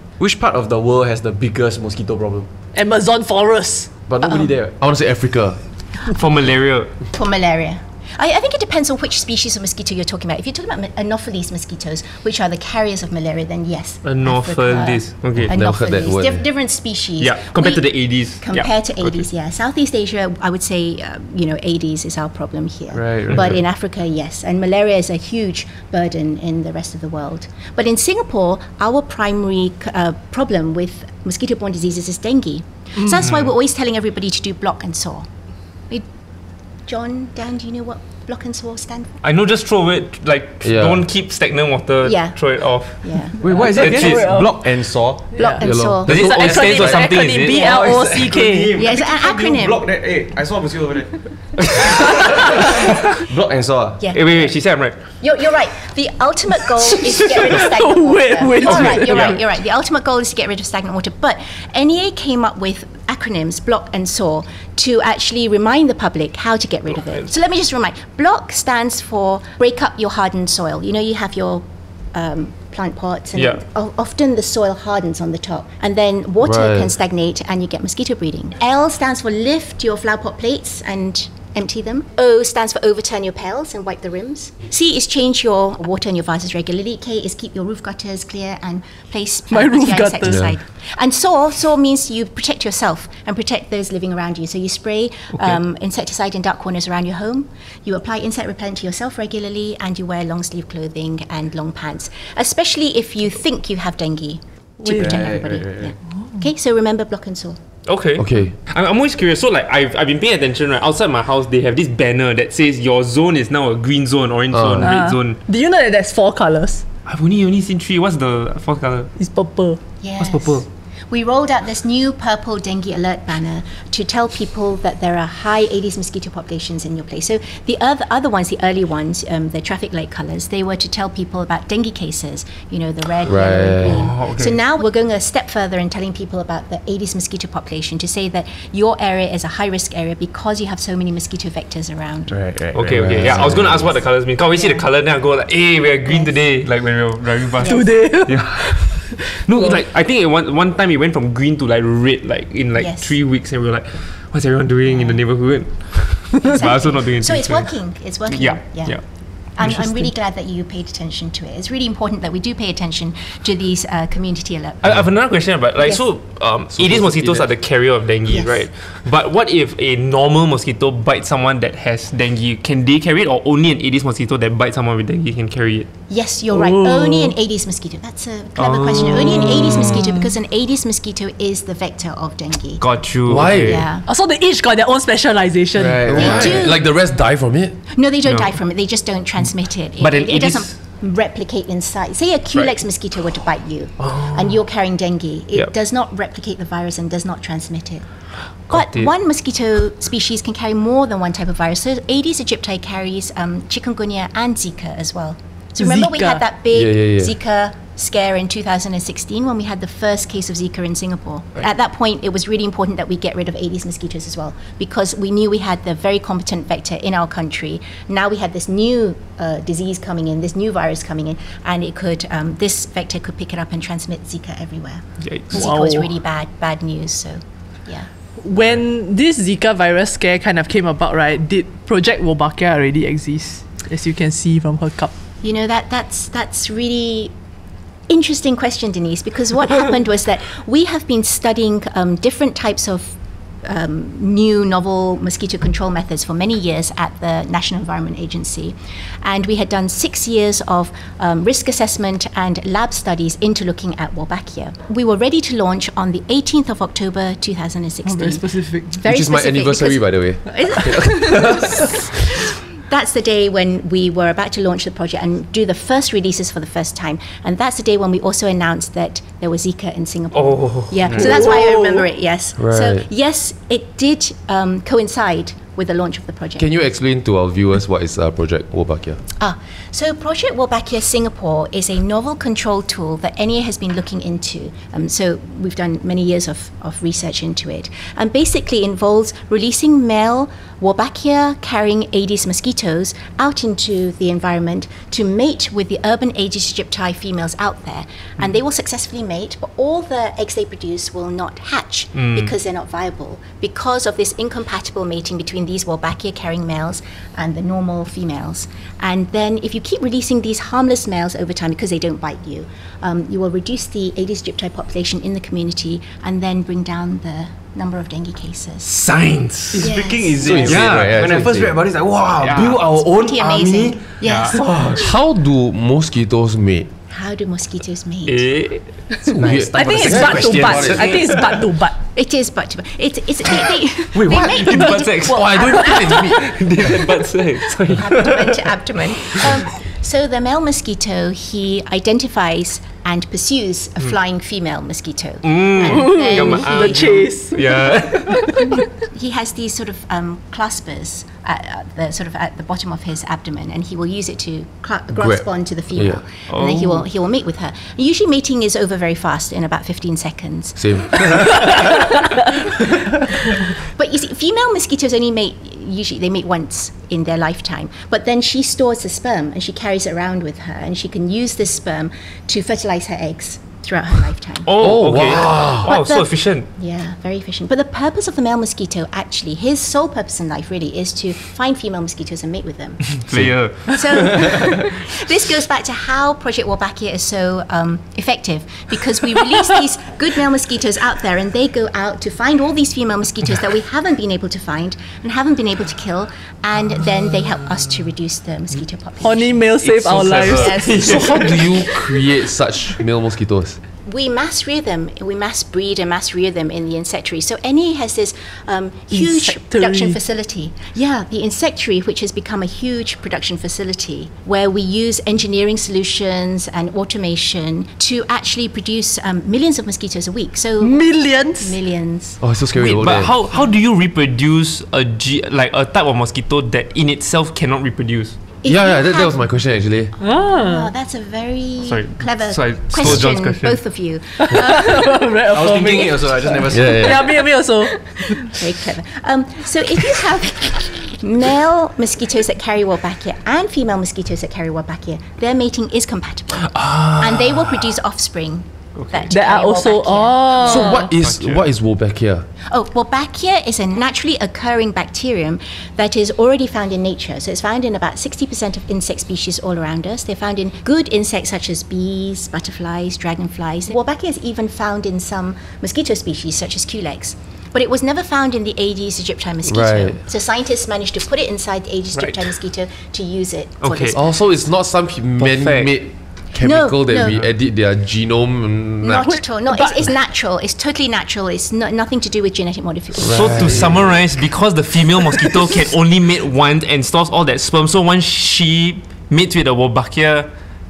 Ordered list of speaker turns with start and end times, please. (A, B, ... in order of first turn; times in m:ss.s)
0:00.2-0:02.5 A
0:02.7-0:03.9 B
0:04.1-0:04.8 A
0:04.2-0:04.5 C
0:04.8-0:05.6 D
0:06.1-0:06.9 E
0:07.1-0:35.3 C
0:14.0-0:15.5 E
0:15.4-0:16.4 D
0:17.2-0:18.7 E
0:22.9-0:23.5 A
0:23.3-0:23.6 E
0:36.9-0:39.2 C
0:39.2-0:43.1 E
0:40.6-0:41.0 D
0:42.0-0:43.4 C
0:43.4-0:45.3 A
0:43.4-0:44.6 B
0:43.7-0:44.3 E
0:45.3-0:48.8 B
0:45.4-0:46.1 C
0:45.6-0:47.3 D
0:46.1-0:48.1 E
0:47.5-0:48.0 C
0:47.6-0:54.4 A
0:48.7-0:49.8 C
0:51.9-0:52.5 B
0:54.0-1:47.6 C
0:54.1-0:55.0 E
0:57.1-0:59.4 B
0:58.6-0:59.4 E
1:16.4-1:16.9 D
1:29.5-1:30.5 B
1:30.3-1:30.5 D
1:44.8-1:45.4 B
1:44.9-1:45.9 A
1:47.9-1:55.4 E
1:48.2-1:48.5 D
1:54.5-1:54.9 D
1:54.8-1:56.8 B
1:57.1-1:59.1 E
1:59.2-1:59.8 B
2:00.0-2:22.4 C
2:00.2-2:00.6 E
2:13.2-2:14.1 D
2:13.8-2:14.6 E
2:22.3-2:23.6 A
2:22.7-2:37.7 E
2:22.9-2:23.9 D
2:24.4-2:24.9 C
2:26.0-2:26.3 C
2:27.6-2:29.8 B
2:32.8-2:33.2 C
2:34.9-2:35.7 C
2:36.4-2:45.0 C
2:38.3-2:40.1 E
2:44.8-2:55.9 E
2:47.0-2:47.4 D
2:48.3-2:48.6 C
2:56.1-3:02.9 C
2:56.5-2:57.4 B
2:58.6-3:00.0 E
2:59.5-3:00.3 B
3:02.8-3:03.9 E
3:03.3-3:03.9 D
3:03.5-3:04.1 C
3:04.1-3:06.4 B
3:05.7-3:06.6 A
3:06.0-3:07.8 D
3:06.1-3:06.8 C
3:07.9-3:18.1 C
3:08.3-3:08.5 E
3:10.0-3:10.7 E
3:14.0-3:14.4 E
3:18.7-3:48.1 C
3:18.7-3:19.1 E
3:25.8-3:26.4 B
3:26.7-3:27.3 D
3:45.2-3:45.6 E
3:45.5-3:46.1 B
3:48.4-3:55.1 B
3:55.4-3:57.3 C
3:58.1-4:36.7 C
4:18.0-4:19.0 B
4:19.0-4:21.9 D
4:20.6-4:21.4 B
4:30.3-4:31.2 E
4:31.2-4:32.1 B
4:32.6-4:33.1 D
4:36.6-4:39.2 D
4:39.4-5:19.0 C
5:02.2-5:02.5 E
5:18.9-5:19.9 E
5:19.7-5:25.0 A
5:19.8-5:20.6 C
5:20.4-5:21.8 D
5:20.6-5:21.2 E
5:22.4-5:22.8 E
5:22.8-5:24.6 C
5:24.2-5:25.0 E
5:24.9-5:26.9 D
5:27.1-5:28.5 C
5:28.3-5:29.0 E
5:29.1-5:29.7 C
5:29.4-5:31.2 D
5:29.7-5:31.4 E
5:29.7-5:32.0 B
5:32.1-5:36.4 C
5:34.1-5:35.1 A
5:34.3-5:38.6 E
5:35.2-5:36.9 D
5:37.9-5:47.2 C
5:45.4-5:48.8 E
5:45.8-5:48.8 B
5:49.0-6:02.5 C
5:55.2-5:56.2 D
5:56.5-5:57.0 E
6:00.8-6:01.6 D
6:03.2-6:23.3 C
6:14.6-6:16.7 E
6:14.8-6:15.9 D
6:23.2-6:24.4 E
6:23.9-6:39.6 C
6:39.2-6:41.4 B
6:39.8-6:41.4 E
6:40.3-6:41.7 C
6:40.9-6:43.8 D
6:44.1-7:02.4 C
6:49.1-6:50.2 B
7:00.8-7:01.8 B
7:02.4-7:03.3 D
7:02.8-7:08.4 E
7:08.6-7:09.4 C
7:08.6-7:10.1 D
7:10.2-7:10.9 B
7:10.5-7:15.1 C
7:11.8-7:13.8 E
7:14.4-7:18.6 B
7:15.5-7:17.2 A
7:16.7-7:17.4 D
7:18.1-7:31.1 C
7:26.8-7:27.1 E
7:29.0-7:29.3 E
7:29.3-7:31.1 B
7:30.6-7:32.5 D
7:31.2-7:31.6 E
7:32.7-7:54.2 C
7:49.6-7:50.2 D
7:52.1-7:52.4 E
7:53.8-7:54.2 E
7:54.1-7:59.3 D
7:55.4-7:55.9 E
7:56.6-7:57.4 C
7:59.0-8:04.0 C
7:59.2-8:00.1 B
8:03.2-8:04.2 D
8:03.3-8:10.5 E